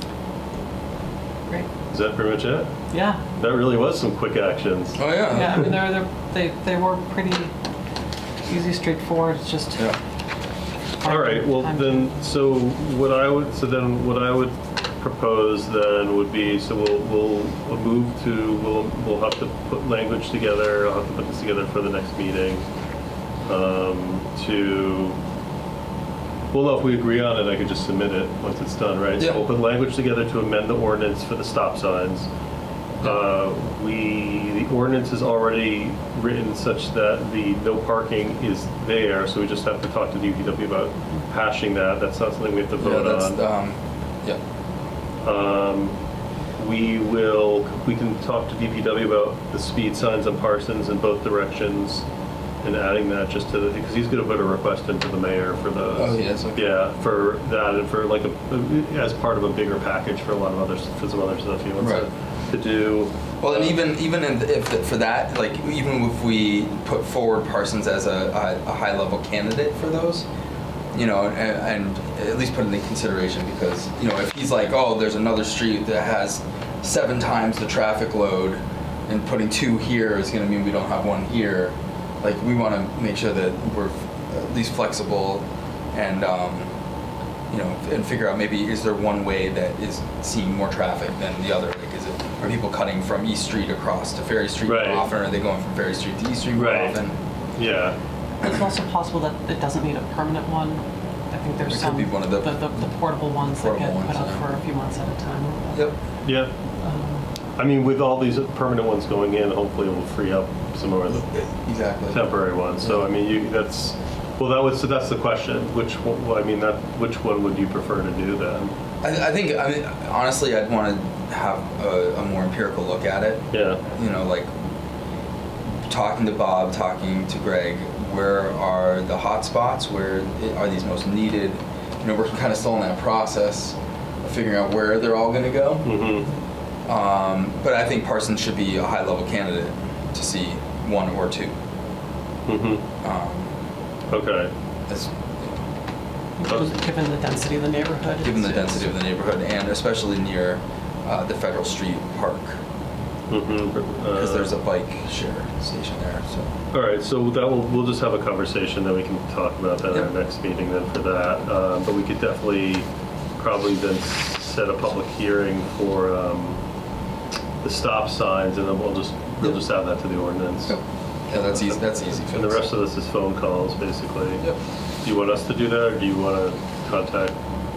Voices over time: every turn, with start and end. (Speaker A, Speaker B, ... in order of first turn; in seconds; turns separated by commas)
Speaker A: 1.9-2.7, Speaker B: 2.9-3.2, Speaker A: 3.3-5.0, Speaker C: 5.0-5.7, Speaker B: 5.3-7.5, Speaker B: 8.4-9.9, Speaker B: 11.0-12.1, Speaker A: 11.0-22.6, Speaker A: 23.4-25.2, Speaker A: 26.5-32.3, Speaker A: 33.0-43.4, Speaker C: 42.8-44.4, Speaker A: 45.2-45.9, Speaker A: 46.6-52.0, Speaker A: 52.6-63.7, Speaker C: 55.9-56.7, Speaker C: 61.8-62.0, Speaker C: 63.4-70.2, Speaker C: 70.9-86.7, Speaker C: 87.5-97.2, Speaker A: 94.7-95.0, Speaker A: 96.5-97.0, Speaker A: 97.6-98.0, Speaker B: 98.4-105.9, Speaker C: 101.7-102.8, Speaker C: 103.5-104.4, Speaker A: 106.2-106.5, Speaker B: 106.8-107.2, Speaker A: 107.6-111.3, Speaker C: 111.1-112.2, Speaker A: 112.1-118.7, Speaker C: 119.0-124.5, Speaker A: 123.5-123.8, Speaker C: 125.9-136.0, Speaker A: 135.8-136.3, Speaker C: 136.9-141.5, Speaker A: 142.4-142.8, Speaker C: 143.0-143.5, Speaker A: 144.1-144.5, Speaker C: 144.9-145.7, Speaker B: 146.4-148.9, Speaker C: 148.2-152.6, Speaker A: 153.3-154.5, Speaker C: 154.1-156.5, Speaker A: 156.7-162.8, Speaker A: 163.4-166.6, Speaker A: 167.6-170.7, Speaker C: 171.3-172.7, Speaker A: 171.5-174.4, Speaker A: 175.0-177.3